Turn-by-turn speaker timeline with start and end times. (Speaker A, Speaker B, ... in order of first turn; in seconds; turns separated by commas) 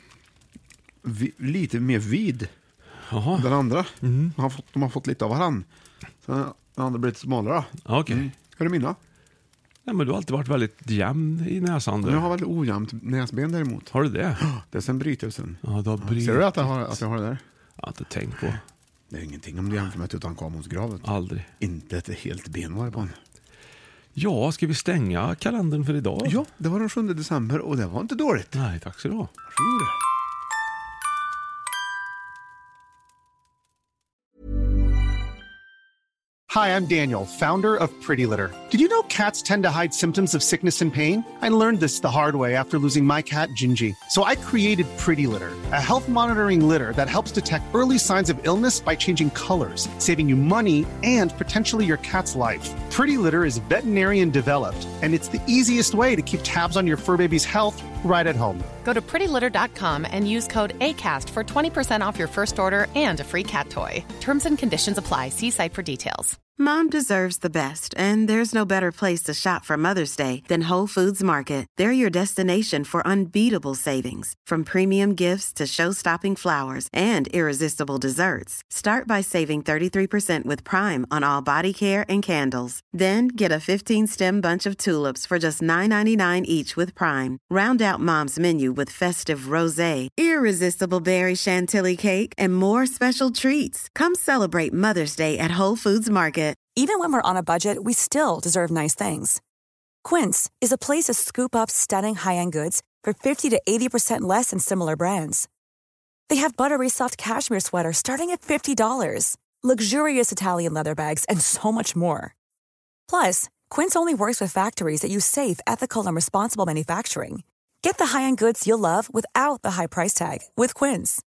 Speaker A: 1.0-2.5, Speaker B: 3.1-4.3, Speaker A: 3.3-5.7, Speaker A: 6.2-9.0, Speaker B: 7.8-8.3, Speaker B: 9.8-12.3, Speaker A: 12.0-17.4, Speaker B: 13.9-14.4, Speaker B: 15.6-16.8, Speaker B: 17.8-18.6, Speaker A: 19.1-21.1, Speaker B: 21.0-21.5, Speaker A: 21.6-23.2, Speaker B: 24.1-26.4, Speaker A: 26.2-28.6, Speaker B: 28.5-29.3, Speaker A: 29.5-29.9, Speaker C: 36.5-58.7, Speaker D: 58.8-66.4, Speaker E: 66.6-96.6, Speaker F: 96.8-99.4, Speaker F: 100.0-105.5, Speaker F: 106.3-112.3, Speaker F: 113.1-121.2